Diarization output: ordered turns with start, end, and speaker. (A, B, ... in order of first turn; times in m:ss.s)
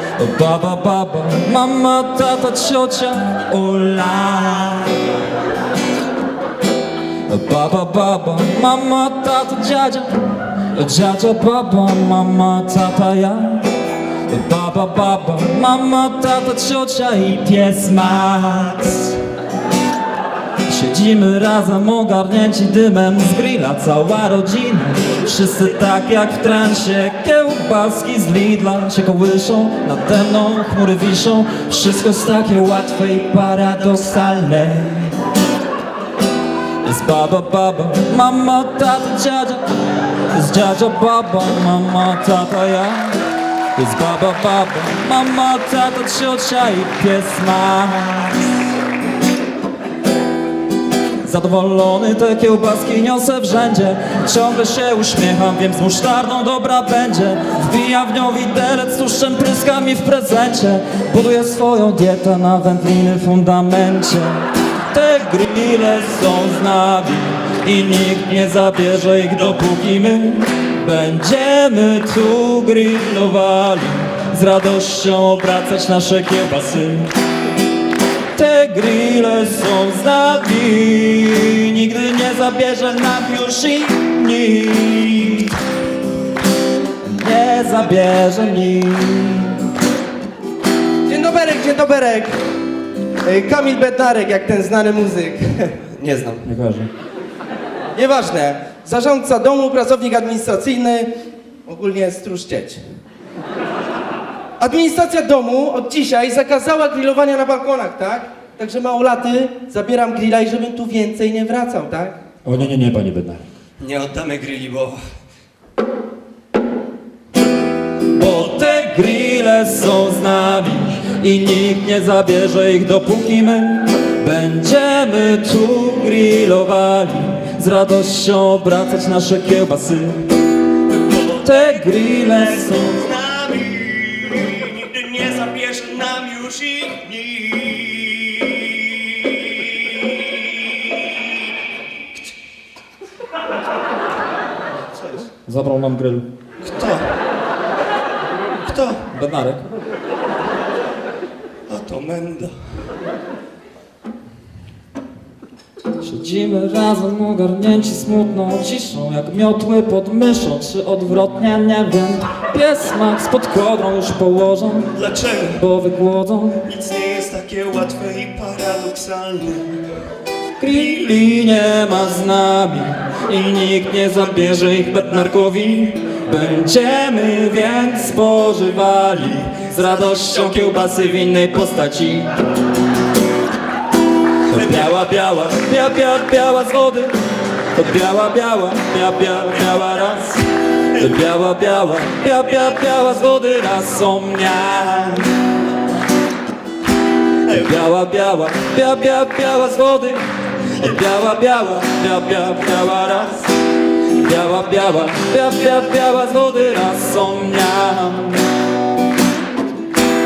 0:00.2-0:05.0 A
0:07.3-0:13.7 A
0:14.3-0:19.2 A
0:20.7-0:35.2 A
0:36.8-0:39.6 A
0:40.3-0:48.5 A
0:51.2-1:17.1 A
1:18.3-1:25.6 A
1:27.1-1:29.6 A
1:31.1-1:32.3 B
1:33.2-1:35.9 B
1:36.0-1:36.4 C
1:36.4-1:36.9 A
1:38.0-1:41.1 B
1:41.7-1:42.8 B
1:44.6-1:52.2 B
1:52.4-1:53.4 A
1:53.8-1:55.0 C
1:58.0-2:10.3 A
2:11.0-2:11.7 C
2:11.2-2:13.1 A
2:12.6-2:21.2 C
2:25.5-2:26.3 A
2:26.6-2:27.1 C
2:28.6-2:29.0 C
2:29.1-2:29.7 A
2:31.7-2:32.6 C
2:36.0-2:46.6 A
2:45.0-2:45.6 C
2:46.6-2:49.8 C
2:50.6-3:02.3 A
3:04.5-3:07.1 A
3:07.7-3:15.3 A
3:17.5-3:23.5 A
3:24.1-3:28.5 A